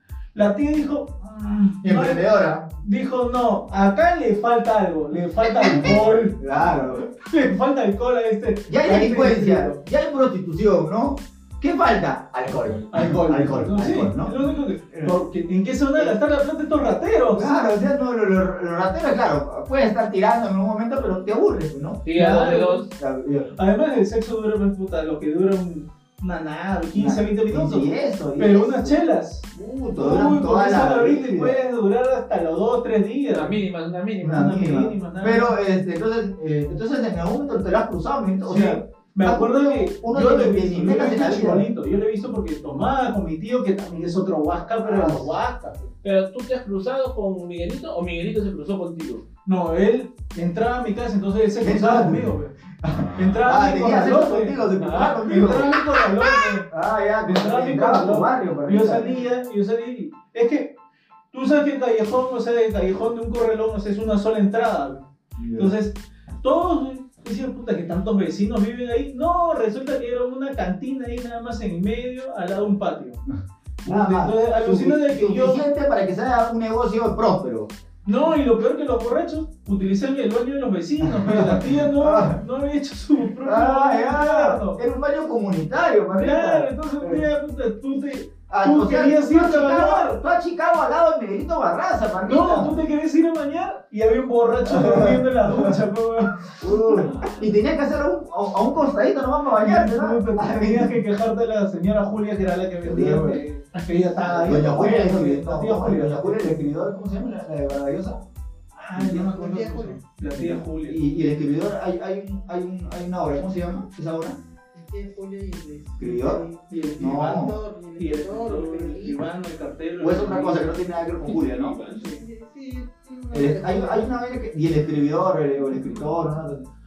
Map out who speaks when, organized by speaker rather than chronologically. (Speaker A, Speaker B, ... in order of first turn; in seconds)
Speaker A: 0.3-2.3, 2.8-6.5, 7.0-9.8, 12.9-17.5, 22.1-22.9, 23.6-33.6, 34.2-35.5, 38.5-45.9, 49.5-52.5, 53.2-54.6, 55.2-56.7, 57.3-60.8, 61.3-65.0, 65.6-73.2, 73.8-75.7, 78.0-84.8, 86.1-90.2, 92.2-97.1, 99.5-106.6, 108.8-111.0, 116.7-120.8, 121.3-122.2
Speaker B: 1.8-2.7, 5.4-7.1, 8.7-15.2, 17.3-22.0, 22.9-23.5, 26.9-31.6, 34.2-41.7, 44.8-45.3, 51.6-55.7, 56.7-59.2, 65.4-65.8, 73.3-77.7, 81.0-82.4, 83.4-87.2, 88.5-92.8, 94.6-95.8, 96.6-101.0, 102.8-103.4, 104.2-108.2, 108.9-114.4, 116.0-116.5, 117.0-117.5, 120.0-121.8, 123.3-126.7
Speaker C: 22.1-22.9, 33.3-34.5, 46.0-49.2, 54.8-55.2, 96.9-97.6, 121.3-122.0
Speaker D: 109.3-110.0, 114.7-119.2, 122.0-124.1